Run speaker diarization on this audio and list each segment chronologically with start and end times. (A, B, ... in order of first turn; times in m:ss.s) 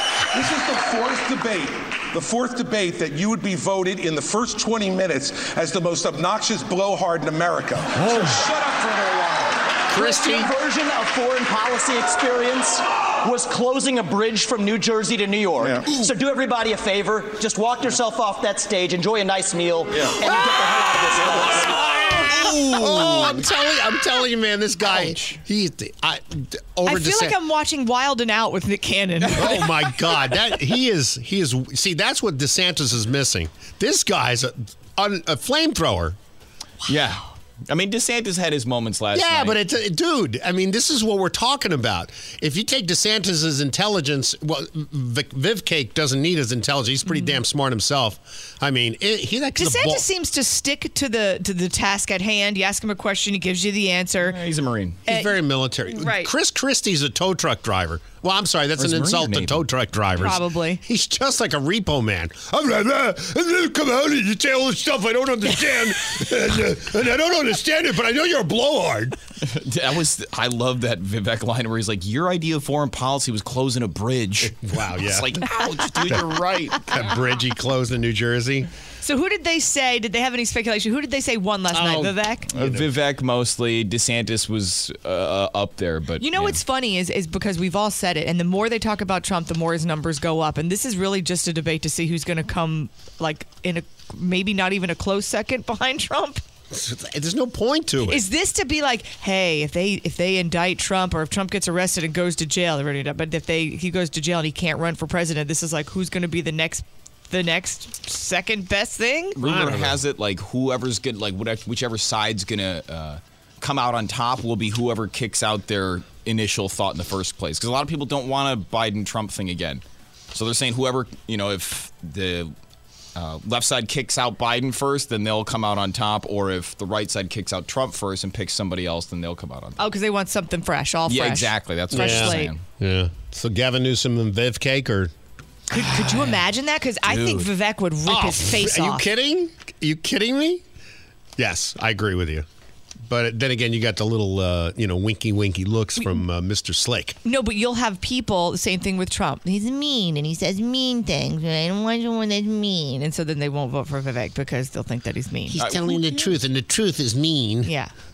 0:00.3-0:09.6 A
0:09.9-0:10.5 B
0:09.9-0:22.6 C
0:22.4-0:27.3 B
0:25.0-0:25.2 D
0:26.9-0:29.5 E
0:29.2-0:29.9 D
0:29.4-0:36.2 B
0:36.9-0:39.6 D
0:39.1-0:50.0 B
0:47.1-0:47.4 E
0:49.6-0:54.4 E
0:54.2-0:55.0 D
0:55.1-0:55.3 E
0:55.1-1:09.2 B
0:55.9-0:56.3 E
0:58.8-0:59.6 D
1:00.2-1:00.8 E
1:09.4-1:17.1 D
1:14.4-1:15.4 B
1:16.8-1:18.7 B
1:19.0-1:22.5 E
1:21.7-1:22.9 B
1:22.5-1:26.6 D
1:26.2-1:36.4 E
1:36.7-1:38.2 B
1:38.0-1:49.4 E
1:49.4-1:59.8 D
1:49.4-1:50.0 B
2:00.3-2:02.5 D
2:03.1-2:09.8 D
2:09.8-2:12.5 E
2:11.1-2:12.6 D
2:11.9-2:15.1 B
2:15.7-2:19.1 E
2:15.8-2:16.4 D
2:17.1-2:17.4 D
2:18.1-2:20.6 B
2:21.4-2:22.5 B
2:23.1-2:27.2 B
2:27.2-2:35.6 E
2:35.5-2:37.7 B
2:35.6-2:36.0 D
2:37.6-2:37.9 E